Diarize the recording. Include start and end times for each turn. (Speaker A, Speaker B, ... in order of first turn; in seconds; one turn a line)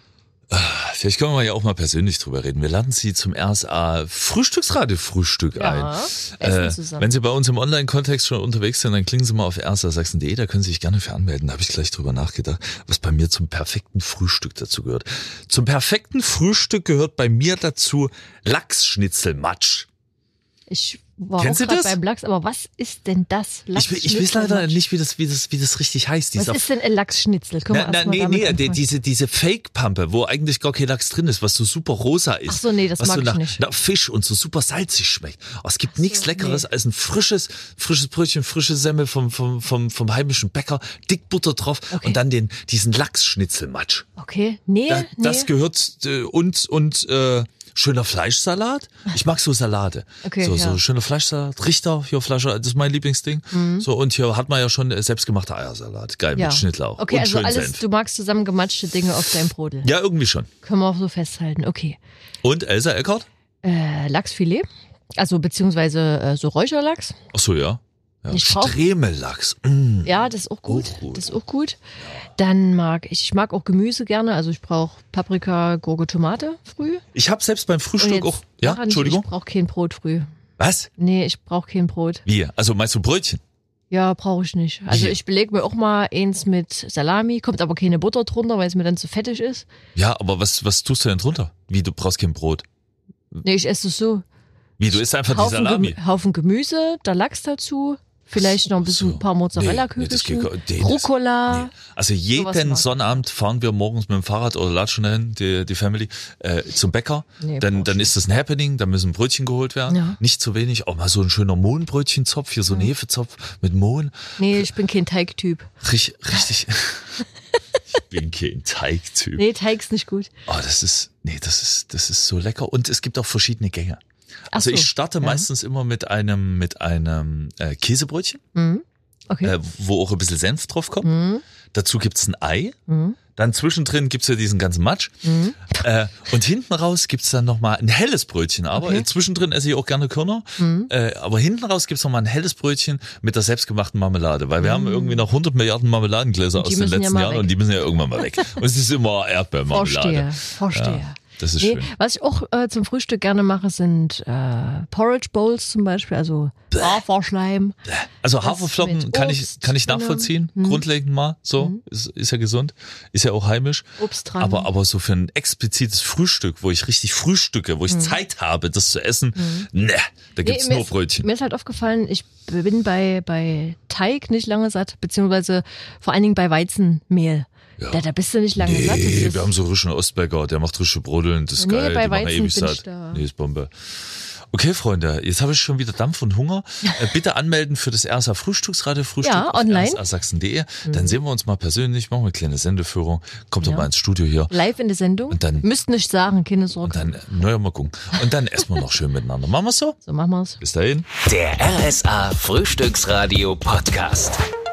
Speaker A: 0.5-19.9
Speaker B: 5.5-7.1
Speaker B: 20.7-24.8
Speaker A: 21.4-22.0
Speaker A: 23.7-26.6
Speaker B: 26.4-28.8
Speaker A: 27.7-44.1
Speaker B: 32.5-33.6
Speaker B: 35.9-36.6
Speaker B: 41.9-42.2
Speaker B: 44.2-45.5
Speaker A: 44.9-57.8
Speaker B: 50.2-50.8
Speaker B: 53.5-53.9
Speaker B: 56.4-59.9
Speaker A: 59.8-60.5
Speaker B: 60.6-62.0
Speaker A: 62.4-63.3
Speaker B: 63.6-64.7
Speaker B: 65.2-67.2
Speaker A: 67.3-71.3
Speaker B: 68.3-68.8
Speaker B: 70.0-71.8
Speaker B: 72.3-77.0
Speaker A: 77.1-79.2
Speaker B: 78.0-80.3
Speaker A: 80.6-80.9
Speaker B: 81.0-82.2
Speaker A: 82.2-83.4
Speaker B: 83.9-89.7
Speaker A: 84.9-85.2
Speaker A: 89.9-92.6
Speaker B: 93.4-94.2
Speaker A: 94.8-96.0
Speaker B: 95.2-101.7
Speaker A: 98.8-114.7
Speaker B: 102.3-103.1
Speaker B: 107.4-108.1
Speaker B: 109.9-110.2
Speaker B: 114.4-115.7
Speaker A: 115.8-117.2
Speaker A: 117.9-119.4
Speaker B: 119.3-120.3
Speaker A: 120.5-124.0
Speaker B: 124.5-125.5
Speaker A: 124.5-128.4
Speaker B: 128.5-129.5
Speaker A: 129.4-131.1
Speaker B: 131.0-131.4
Speaker A: 131.7-132.8
Speaker B: 132.9-133.2
Speaker A: 133.3-151.9
Speaker B: 135.2-135.7
Speaker B: 138.7-139.1
Speaker B: 140.6-140.9
Speaker B: 144.6-145.2
Speaker B: 146.6-147.6
Speaker B: 148.1-148.5
Speaker B: 149.7-157.8
Speaker A: 156.7-157.0
Speaker A: 157.9-171.3
Speaker B: 158.4-160.8
Speaker B: 164.0-164.7
Speaker B: 167.9-168.2
Speaker B: 169.3-169.7
Speaker B: 170.4-179.5
Speaker A: 178.6-194.5
Speaker B: 181.6-183.2
Speaker B: 189.2-190.0
Speaker B: 190.8-191.2
Speaker B: 193.6-193.9
Speaker B: 194.5-197.1
Speaker A: 195.3-195.7
Speaker A: 196.8-200.0
Speaker B: 200.0-200.6
Speaker A: 200.6-201.1
Speaker C: 201.2-204.4